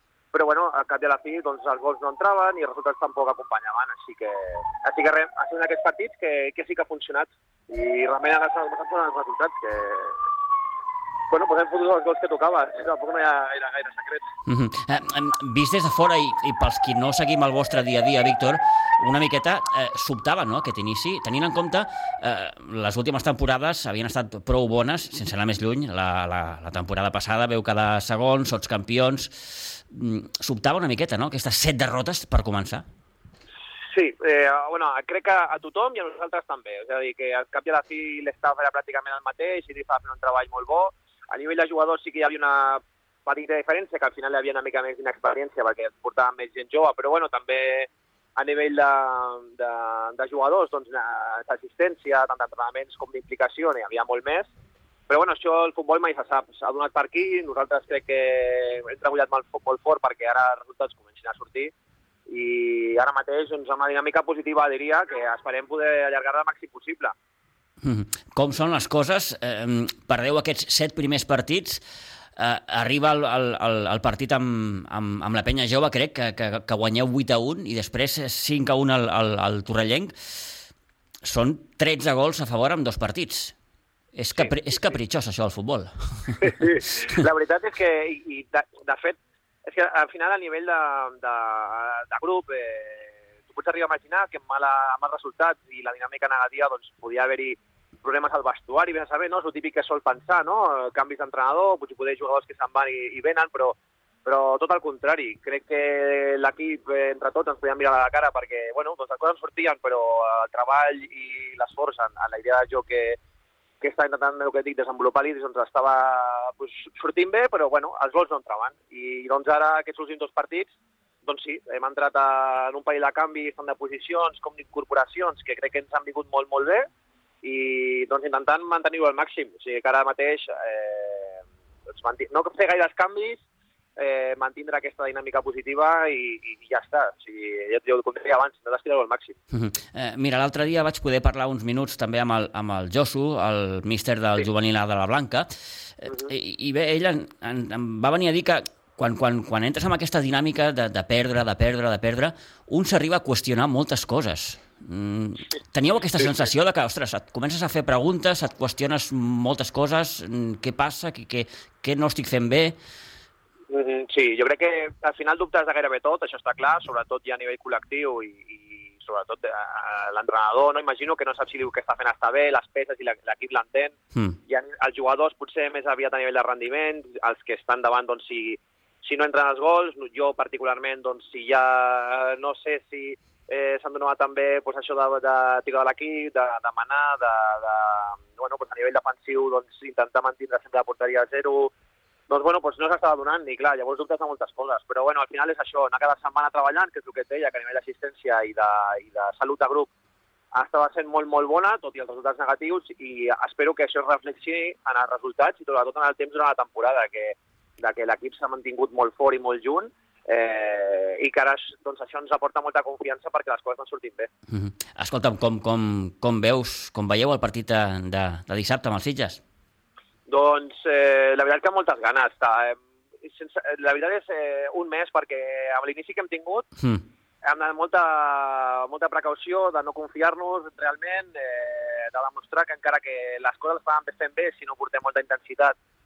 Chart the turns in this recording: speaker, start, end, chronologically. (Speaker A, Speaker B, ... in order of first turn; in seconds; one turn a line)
Speaker A: 0.3-10.2
Speaker A: 11.3-14.2
Speaker B: 14.5-32.8
Speaker A: 33.9-54.5
Speaker A: 55.1-61.7
Speaker A: 62.3-67.1
Speaker B: 67.8-71.8
Speaker B: 72.4-80.1
Speaker B: 81.2-83.5
Speaker B: 84.1-87.1
Speaker A: 84.3-84.9
Speaker A: 86.4-113.2
Speaker A: 113.8-120.7
Speaker A: 121.2-126.9
Speaker A: 127.4-133.4
Speaker A: 134.0-139.4
Speaker B: 139.5-145.5
Speaker B: 146.0-162.8
Speaker A: 163.7-173.9
Speaker A: 174.5-191.7
Speaker A: 192.3-199.9
Speaker A: 200.5-214.3
Speaker B: 214.5-219.4
Speaker A: 220.3-226.7
Speaker A: 227.4-235.7